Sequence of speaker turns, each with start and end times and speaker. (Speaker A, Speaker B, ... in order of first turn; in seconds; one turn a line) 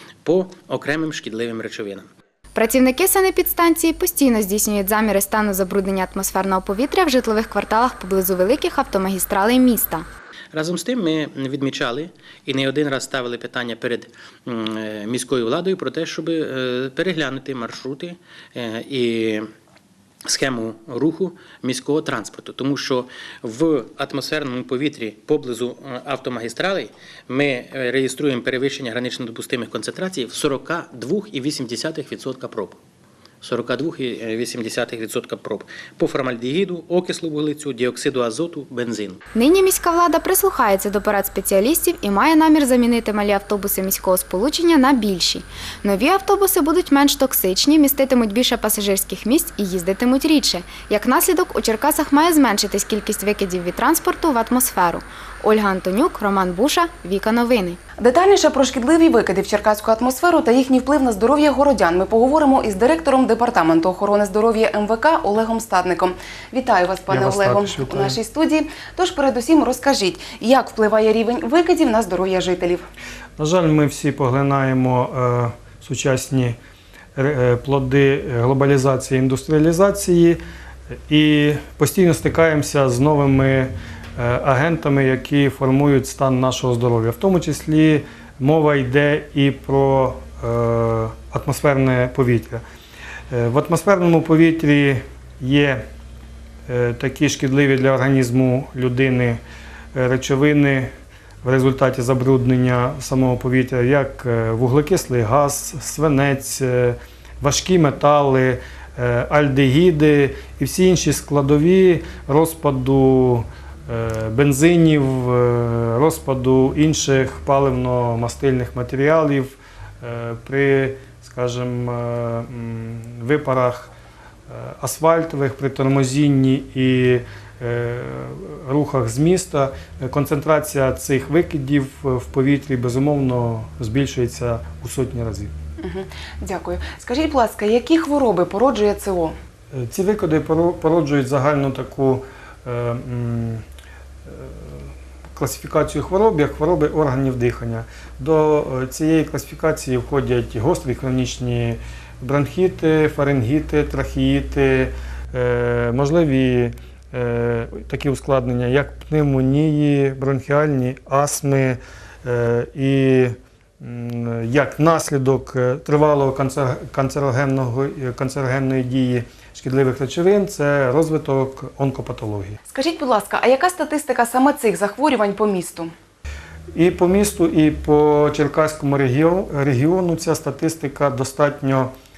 Speaker A: 0.2-2.1
Speaker B: 2.5-10.0
Speaker A: 10.5-19.4
Speaker A: 20.2-32.8
Speaker A: 33.4-39.2
Speaker B: 39.3-57.8
Speaker C: 58.0-72.8
Speaker D: 67.1-68.2
Speaker D: 73.4-76.6
Speaker D: 77.2-80.4
Speaker D: 81.1-92.6
Speaker D: 93.3-95.8
Speaker D: 96.7-99.4
Speaker D: 99.9-100.9
Speaker D: 101.4-123.9
Speaker D: 124.5-135.5
Speaker C: 135.8-139.3
Speaker D: 139.7-143.6
Speaker D: 144.3-172.6
Speaker C: 172.7-175.9
Speaker D: 176.7-181.9